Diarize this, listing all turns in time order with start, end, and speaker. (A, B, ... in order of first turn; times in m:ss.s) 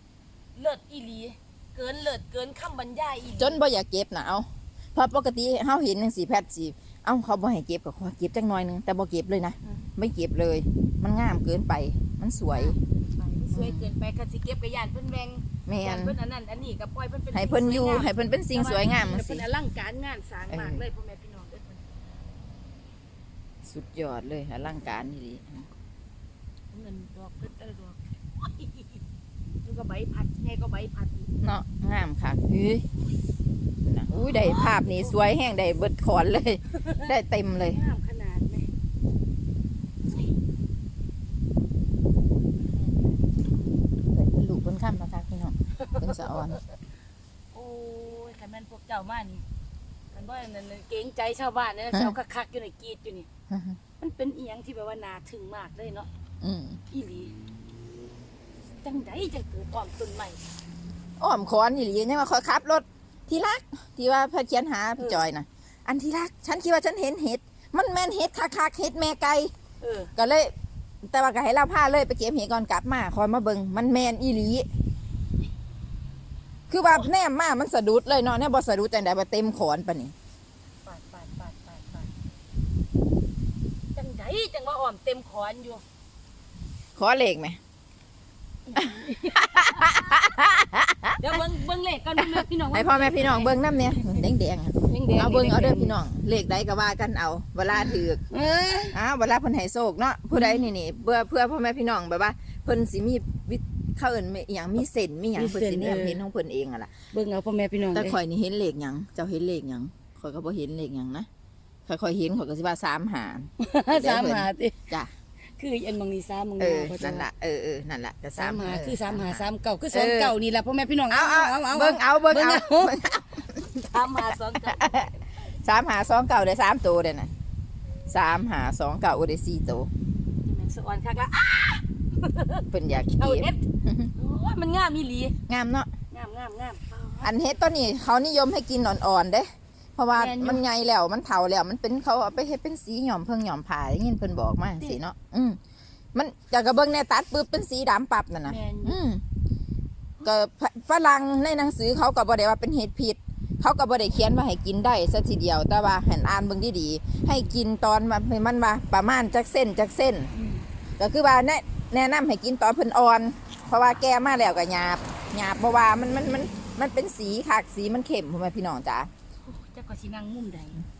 0:00.5-0:03.6 A
0:03.4-0:12.8 B
0:12.3-0:21.8 A
0:13.5-0:13.9 B
0:15.6-0:16.2 B
0:17.3-0:19.4 B
0:20.5-0:20.8 B
0:23.6-0:25.7 B
0:26.7-0:29.0 A
0:29.6-0:31.3 A
0:31.4-0:32.8 B
0:33.8-0:37.8 B
0:34.1-0:35.3 A
0:36.7-0:38.7 A
0:42.6-0:43.1 A
0:44.1-0:46.6 B
0:45.8-0:46.6 A
0:47.5-0:49.4 A
0:50.1-0:53.3 A
0:51.9-0:52.2 B
0:53.5-0:53.8 B
0:53.9-0:56.1 A
0:56.4-0:56.8 B
0:56.9-0:57.3 A
0:58.8-1:00.4 A
1:01.2-1:09.5 B
1:05.0-1:05.3 A
1:09.8-1:10.1 A
1:10.2-1:10.5 B
1:11.0-1:14.7 B
1:16.7-1:20.1 B
1:20.8-1:22.1 A
1:23.9-1:25.8 A
1:27.0-1:27.6 B
1:28.7-1:30.3 A
1:28.8-1:31.4 B
1:31.2-1:34.3 A
1:32.2-1:38.2 B
1:34.8-1:36.0 A
1:37.7-1:39.0 A
1:38.9-1:46.9 B
1:40.3-1:40.7 A
1:45.3-1:46.2 A
1:47.1-1:48.2 A
1:47.9-1:51.3 B
1:51.8-1:55.1 B
1:53.6-1:55.0 A
1:55.6-1:57.3 A
1:56.6-2:00.3 B
1:58.3-2:05.3 A
2:01.1-2:04.0 B
2:04.6-2:05.1 B
2:05.6-2:07.3 B
2:08.1-2:09.9 B
2:10.4-2:15.4 A
2:12.7-2:14.1 B
2:15.5-2:15.9 B
2:16.1-2:17.5 A
2:17.2-2:25.6 B
2:20.1-2:20.7 A
2:26.1-2:29.2 B
2:28.4-2:29.0 A
2:30.2-2:40.3 B
2:40.3-2:40.6 A
2:41.0-2:49.1 B
2:49.4-2:50.8 A